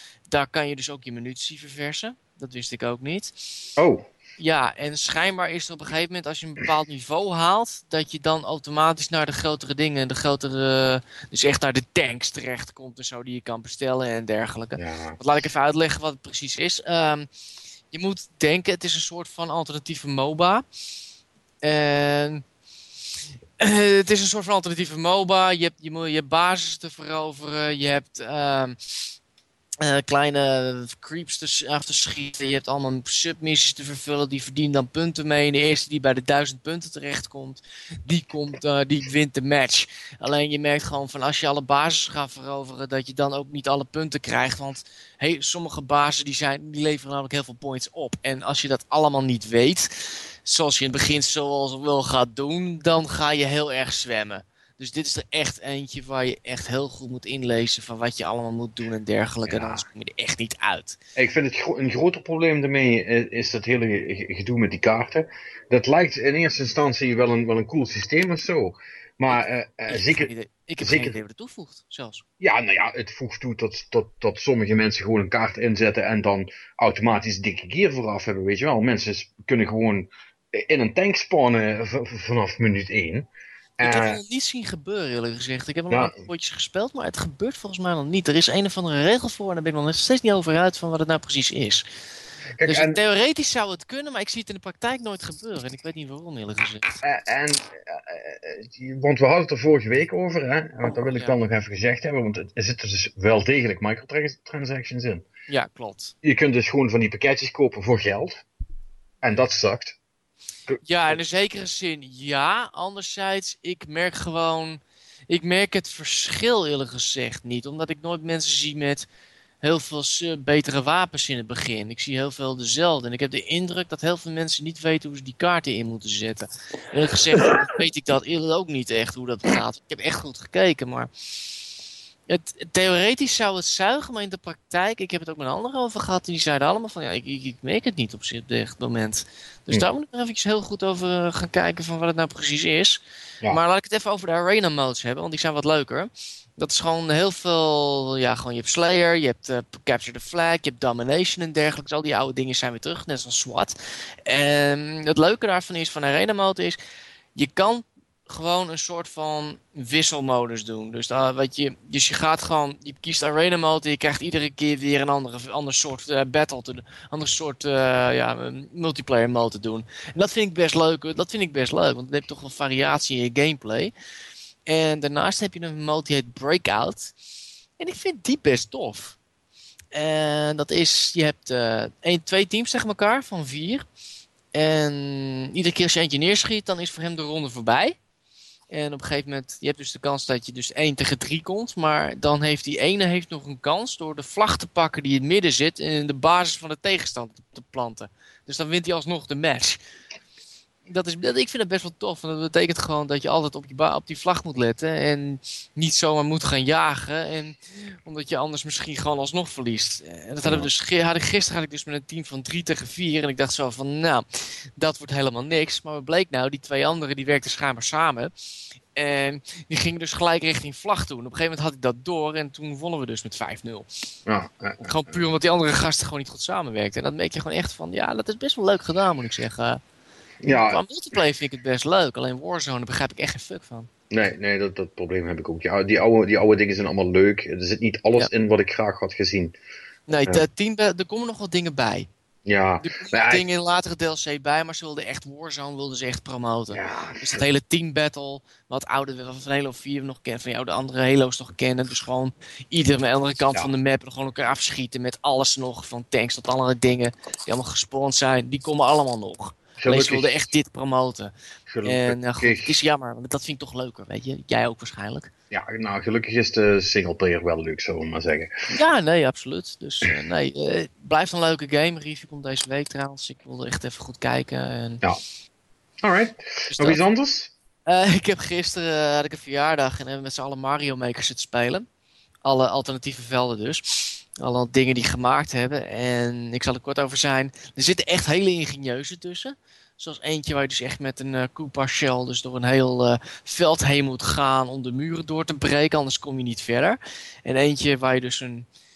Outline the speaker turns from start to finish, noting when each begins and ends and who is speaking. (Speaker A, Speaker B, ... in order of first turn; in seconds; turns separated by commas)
Speaker A: 0.3-3.4, Speaker B: 3.8-4.0, Speaker A: 4.4-17.3, Speaker B: 14.8-15.2, Speaker A: 17.9-20.6, Speaker A: 21.6-22.4, Speaker A: 23.6-29.1, Speaker A: 29.8-61.0, Speaker B: 59.5-59.8, Speaker B: 61.2-70.3, Speaker A: 69.3-72.2, Speaker B: 70.8-71.2, Speaker B: 72.4-83.3, Speaker B: 83.8-84.2, Speaker A: 83.8-91.8, Speaker B: 85.9-86.2, Speaker B: 92.6-93.0, Speaker A: 92.6-97.0, Speaker B: 97.0-105.2, Speaker A: 105.5-106.1, Speaker B: 106.2-108.4, Speaker B: 109.2-110.0, Speaker B: 110.7-111.1, Speaker A: 110.8-119.1, Speaker A: 119.6-131.6, Speaker A: 132.3-153.8, Speaker A: 154.3-156.8, Speaker A: 157.3-173.9, Speaker A: 174.7-177.1, Speaker A: 177.8-179.2, Speaker A: 179.9-183.8, Speaker A: 184.5-188.0, Speaker A: 188.7-199.8, Speaker A: 200.9-218.3, Speaker A: 218.9-223.9, Speaker B: 224.3-225.2, Speaker A: 224.8-229.8, Speaker B: 230.4-230.8, Speaker A: 230.5-233.9, Speaker B: 234.1-239.5, Speaker A: 240.1-242.1, Speaker B: 242.4-243.4, Speaker A: 242.8-261.3, Speaker B: 246.7-247.4, Speaker B: 259.8-260.4, Speaker B: 261.7-262.8, Speaker A: 261.8-265.3, Speaker B: 265.5-268.7, Speaker A: 268.7-275.0, Speaker B: 276.0-277.5, Speaker A: 276.7-277.0, Speaker A: 277.9-281.9, Speaker A: 282.4-298.7